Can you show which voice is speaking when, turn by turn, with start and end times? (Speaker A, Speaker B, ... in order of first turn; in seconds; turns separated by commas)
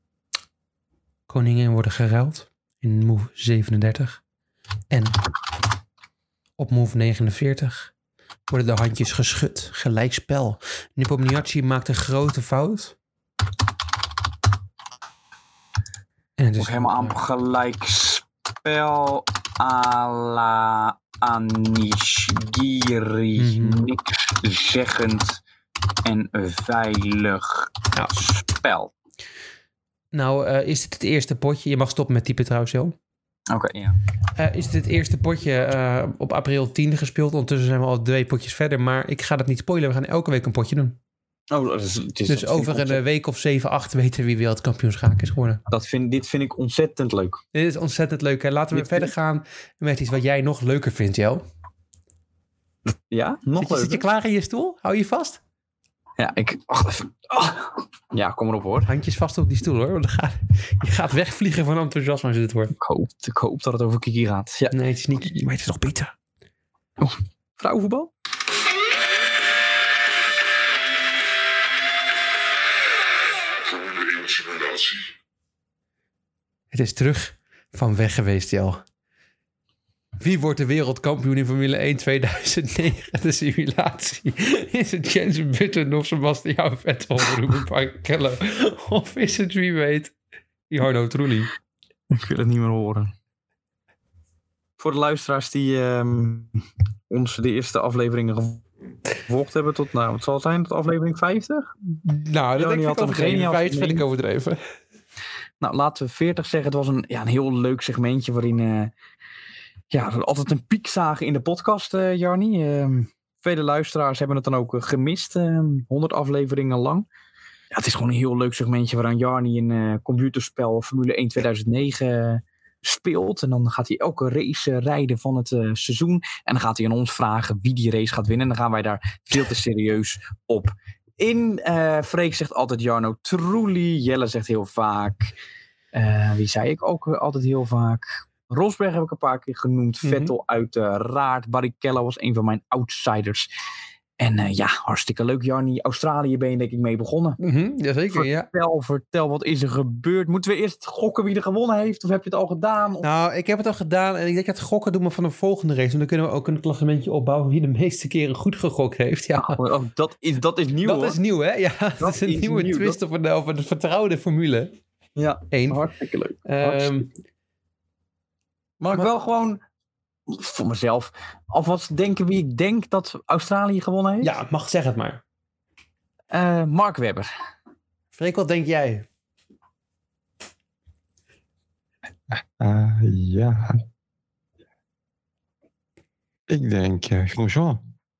Speaker A: 1.3-4.2, Speaker A: 4.9-5.2, Speaker A: 6.6-7.9, Speaker A: 8.5-13.0, Speaker A: 16.4-17.2, Speaker B: 16.6-25.4, Speaker A: 23.4-23.9, Speaker B: 26.1-28.9, Speaker A: 30.1-33.0, Speaker B: 33.5-34.0, Speaker A: 34.4-41.0, Speaker B: 41.5-43.0, Speaker A: 42.3-45.6, Speaker B: 45.7-47.4, Speaker A: 47.5-51.4, Speaker B: 48.7-49.1, Speaker B: 52.9-54.0, Speaker A: 53.6-55.4, Speaker B: 56.2-58.9, Speaker A: 58.9-62.7, Speaker B: 62.7-64.7, Speaker A: 64.7-66.1, Speaker B: 67.0-68.1, Speaker C: 74.3-74.6, Speaker A: 76.7-78.8, Speaker A: 80.2-90.1, Speaker A: 90.7-91.5, Speaker B: 92.1-93.1, Speaker B: 94.8-98.6, Speaker B: 99.2-101.7, Speaker A: 102.0-104.6, Speaker B: 102.6-104.0, Speaker B: 105.6-108.9, Speaker B: 109.9-117.1, Speaker B: 117.7-135.3, Speaker B: 135.9-143.5, Speaker A: 140.0-140.3, Speaker B: 144.2-147.4, Speaker A: 147.4-148.5, Speaker B: 148.1-153.1, Speaker A: 153.0-159.7, Speaker B: 159.4-161.2, Speaker A: 160.8-164.7, Speaker B: 162.0-163.0, Speaker B: 165.2-167.0, Speaker A: 165.5-165.8, Speaker A: 166.4-167.1, Speaker B: 168.8-169.6, Speaker B: 170.3-174.3, Speaker A: 174.2-175.2, Speaker B: 176.3-177.3, Speaker A: 178.1-179.1, Speaker C: 182.6-183.8, Speaker C: 186.5-187.8